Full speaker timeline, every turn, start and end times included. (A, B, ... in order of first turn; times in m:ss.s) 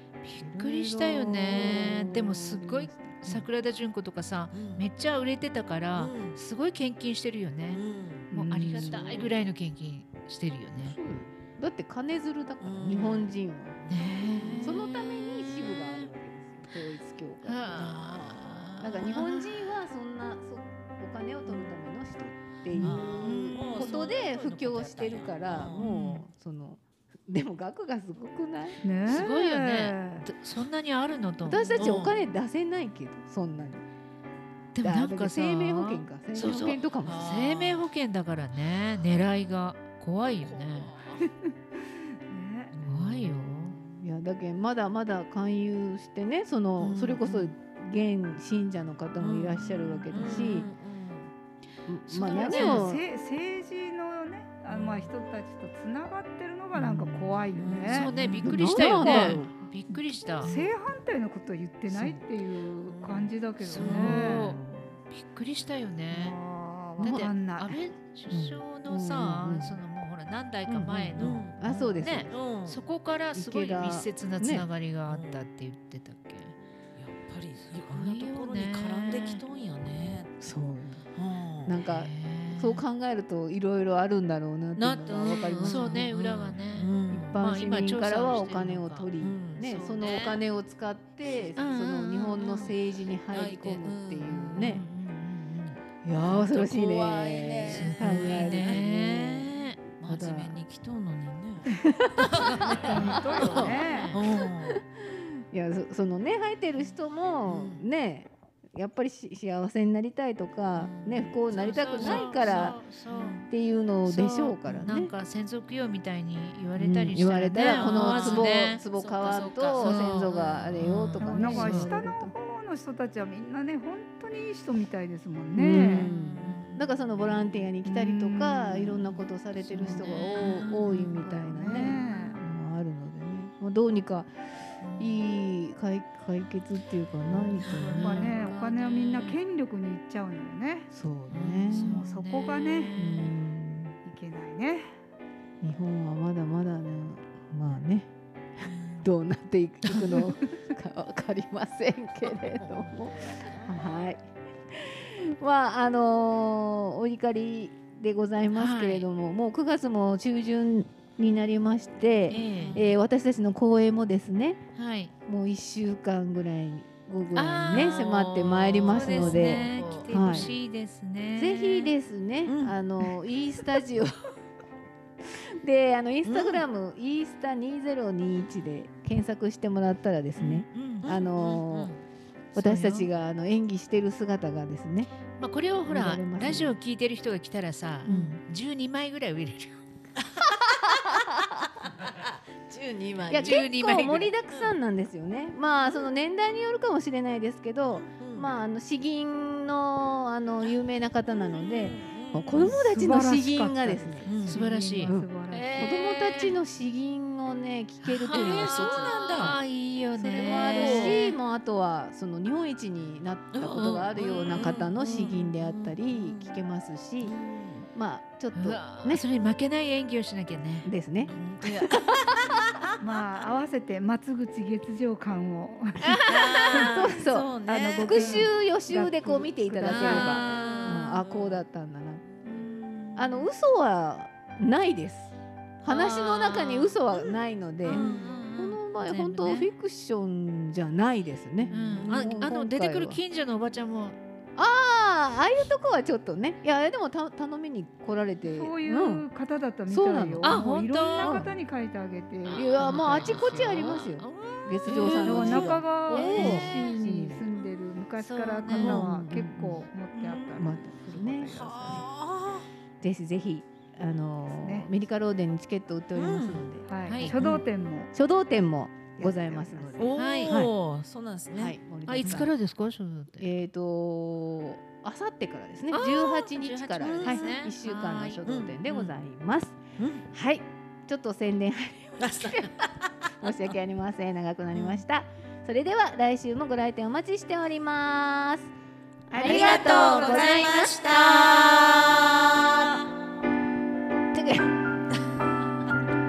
0:00.2-0:07.8 A
0:00.4-0:03.4 B
0:04.5-0:04.8 C
0:06.0-0:06.4 C
0:07.7-0:08.3 C
0:08.3-0:09.2 D
0:08.3-0:11.0 A
0:08.5-0:09.3 B
0:10.8-0:17.7 B
0:12.6-0:13.3 C
0:13.9-0:16.0 A
0:13.9-0:14.9 C
0:17.4-0:19.4 A
0:17.7-0:19.2 C
0:18.8-0:28.8 B
0:22.7-0:23.8 A
0:22.8-0:25.9 C
0:25.7-0:26.2 A
0:28.8-0:30.2 D
0:29.0-0:32.0 A
0:31.4-0:33.8 B
0:31.8-0:32.2 C
0:34.7-0:40.9 A
0:34.8-0:37.3 B
0:37.0-0:37.9 C
0:40.4-0:41.3 C
0:41.2-0:42.7 D
0:42.7-0:43.8 A
0:42.8-0:50.7 B
0:46.8-0:47.5 C
0:49.2-0:51.3 C
0:51.9-0:53.0 B
0:52.1-0:52.9 A
0:52.2-0:58.1 D
0:54.7-0:55.1 C
0:56.7-0:57.6 B
0:57.5-0:59.4 C
0:57.9-1:00.5 A
0:58.4-1:00.7 B
0:59.0-0:59.3 D
1:00.4-1:04.5 D
1:02.8-1:04.1 C
1:03.6-1:06.4 A
1:03.8-1:04.9 B
1:06.1-1:07.8 D
1:07.0-1:16.5 A
1:07.0-1:07.3 B
1:08.3-1:09.8 B
1:10.7-1:12.3 B
1:11.2-1:11.6 C
1:12.3-1:12.8 C
1:13.3-1:14.6 B
1:15.1-1:15.4 C
1:17.0-1:20.3 C
1:17.6-1:19.4 A
1:20.4-1:21.0 B
1:21.1-1:21.8 C
1:21.6-1:26.0 B
1:21.8-1:22.8 A
1:24.8-1:27.4 C
1:25.6-1:29.0 A
1:27.1-1:34.8 B
1:29.2-1:29.7 C
1:29.6-1:30.4 A
1:31.6-1:32.6 A
1:32.4-1:32.7 C
1:33.3-1:34.8 C
1:34.5-1:35.8 A
1:36.0-1:40.6 B
1:36.1-1:38.8 C
1:37.6-1:39.8 A
1:40.0-1:44.8 C
1:41.7-1:43.6 B
1:42.3-1:44.2 A
1:42.8-1:44.1 D
1:44.1-1:52.8 B
1:47.4-1:47.8 C
1:50.7-1:53.5 C
1:51.5-1:53.5 A
1:53.5-1:55.1 B
1:54.0-1:58.8 A
1:56.8-2:02.3 B
1:57.7-2:01.2 C
1:59.8-2:01.9 A
2:01.2-2:06.1 D
2:05.5-2:18.6 B
2:05.7-2:07.7 C
2:07.8-2:09.0 D
2:09.8-2:10.1 D
2:09.8-2:11.9 C
2:09.8-2:10.7 A
2:11.2-2:12.4 D
2:14.8-2:15.2 C
2:17.3-2:18.2 C
2:17.6-2:19.3 A
2:17.7-2:20.9 D
2:20.9-2:22.0 B
2:21.3-2:21.9 C
2:21.7-2:23.4 A
2:21.9-2:22.9 D
2:22.9-2:24.0 B
2:24.0-2:24.9 D
2:25.6-2:44.6 B
2:28.6-2:29.0 C
2:32.2-2:34.0 C
2:38.5-2:39.0 A
2:42.3-2:42.8 A
2:42.6-2:42.9 C
2:44.8-2:45.1 A
2:45.2-2:50.5 B
2:47.3-2:51.9 A
2:47.7-2:50.5 C
2:51.4-2:54.1 B
2:52.4-2:52.7 C
2:55.2-3:01.9 B
2:56.2-2:56.6 C
3:00.4-3:01.1 A
3:01.0-3:02.0 C
3:02.5-3:03.1 A
3:02.5-3:05.1 B
3:05.4-3:09.8 A
3:05.9-3:06.7 B
3:08.0-3:08.4 B
3:08.1-3:08.3 C
3:10.2-3:13.7 C
3:11.0-3:11.2 B
3:13.3-3:24.4 B
3:13.3-3:14.3 A
3:14.5-3:14.8 C
3:17.9-3:18.5 C
3:21.4-3:22.8 C
3:22.7-3:25.9 D
3:24.2-3:24.6 C
3:24.5-3:26.5 A
3:25.0-3:29.6 B
3:28.0-3:31.4 A
3:28.2-3:29.6 C
3:30.2-3:37.4 B
3:30.7-3:31.2 C
3:33.5-3:36.6 C
3:34.6-3:34.8 A
3:37.2-3:37.9 C
3:37.9-3:39.2 B
3:38.5-3:41.9 A
3:40.8-3:42.0 B
3:41.3-3:42.7 C
3:43.0-3:50.6 D
3:46.0-3:46.9 A
3:46.2-3:48.5 C
3:46.7-3:47.5 B
3:48.0-3:52.4 B
3:49.8-3:51.2 A
3:51.1-3:51.6 C
3:52.3-3:52.7 C
3:52.4-3:53.5 A
3:53.2-4:03.2 B
3:55.8-3:57.0 A
3:57.1-3:58.3 C
3:57.8-3:59.7 A
4:01.6-4:02.4 C
4:01.7-4:04.2 A
4:04.6-4:09.2 B
4:08.4-4:13.6 D
4:09.9-4:10.6 B
4:10.4-4:11.5 A
4:11.2-4:11.5 B
4:12.4-4:16.9 A
4:12.5-4:17.4 B
4:14.8-4:15.7 C
4:15.0-4:22.0 D
4:16.3-4:16.6 C
4:18.2-4:19.1 A
4:18.7-4:19.9 B
4:20.1-4:20.6 A
4:20.5-4:22.0 B
4:21.5-4:22.7 C
4:23.0-4:27.6 B
4:24.6-4:24.9 D
4:26.1-4:26.7 C
4:26.9-4:28.1 D
4:27.0-4:27.4 A
4:28.1-4:30.7 B
4:29.2-4:30.1 D
4:30.0-4:32.4 C
4:30.2-4:30.6 A
4:31.6-4:32.5 B
4:32.1-4:33.5 A
4:33.4-4:42.8 B
4:35.9-4:38.4 A
4:37.0-4:37.5 C
4:38.4-4:39.1 C
4:40.0-4:40.2 C
4:42.2-4:43.6 C
4:43.4-4:48.7 B
4:44.7-4:45.0 C
4:49.3-4:51.4 B
4:49.3-4:51.4 A
4:49.3-4:53.0 C
4:54.3-4:54.7 B